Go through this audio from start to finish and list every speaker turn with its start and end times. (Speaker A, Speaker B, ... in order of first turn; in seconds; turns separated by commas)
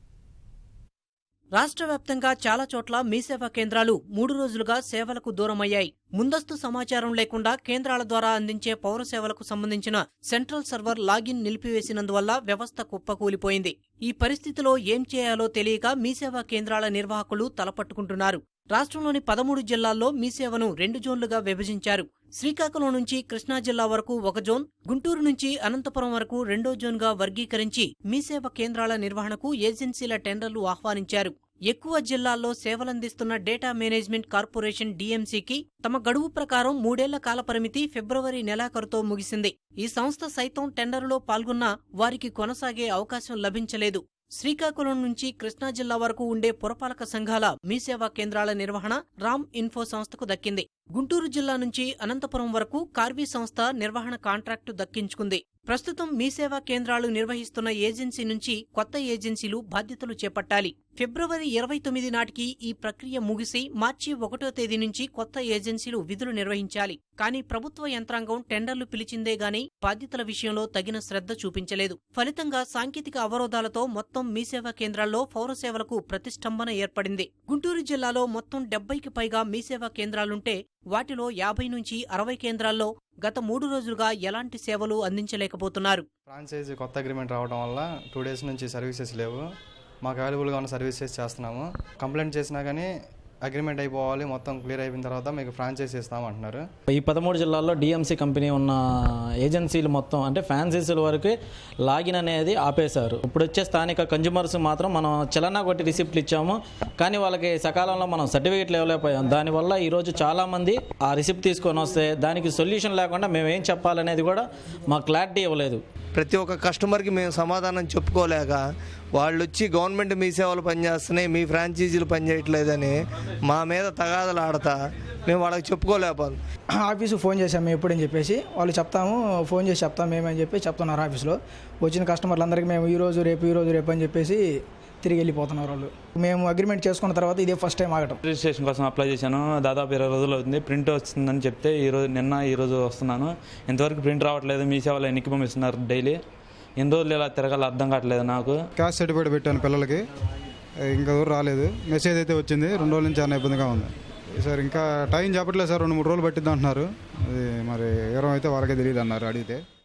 Speaker A: 1.6-86.1, Speaker B: 86.3-89.5, Speaker B: 90.0-92.9, Speaker B: 93.5-96.7, Speaker C: 96.9-98.9, Speaker C: 99.4-115.8, Speaker D: 116.1-118.6, Speaker D: 119.1-126.4, Speaker E: 126.8-134.5, Speaker E: 135.0-138.2, Speaker F: 138.2-146.2, Speaker F: 146.8-148.6, Speaker G: 148.8-150.0, Speaker G: 150.9-159.6